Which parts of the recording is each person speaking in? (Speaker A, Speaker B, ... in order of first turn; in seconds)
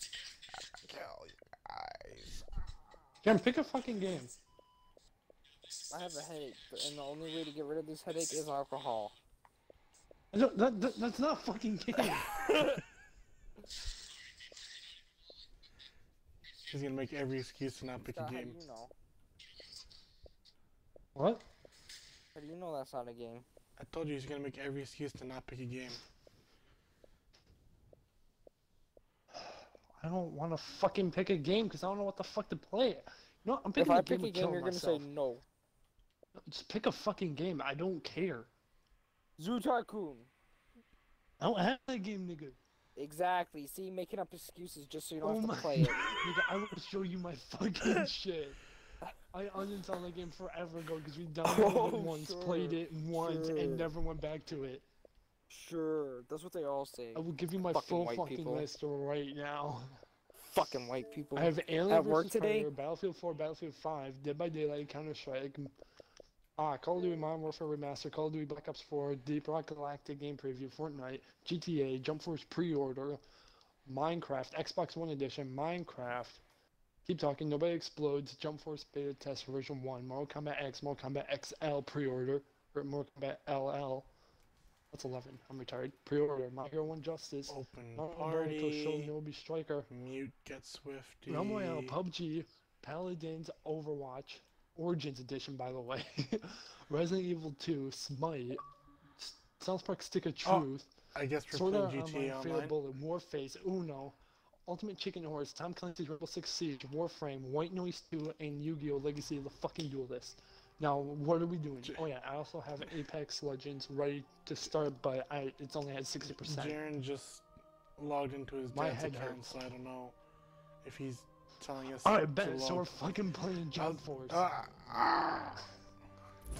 Speaker A: 0.7-2.5, 16.7-18.6, 23.8-26.0, 87.5-89.1, 89.9-92.0, 100.4-102.8, 116.2-120.2, 120.8-122.9, 123.8-125.7
Speaker B: 3.2-4.3, 10.3-12.3, 21.1-21.4, 29.3-35.0, 36.4-38.5, 41.4-42.6, 45.2-48.6, 49.3-54.8, 57.1-60.0, 61.4-65.7, 66.6-73.2, 73.9-76.4, 77.0-84.1, 84.9-89.9, 91.3-98.6, 99.2-100.9, 101.5-104.2, 104.7-116.8, 118.7-119.6, 122.0-124.4
Speaker C: 5.9-9.1, 12.5-12.8, 18.0-18.9, 22.3-23.4, 33.8-35.4, 39.4-40.3, 43.0-46.1, 51.4-53.9, 55.5-58.6, 60.4-62.7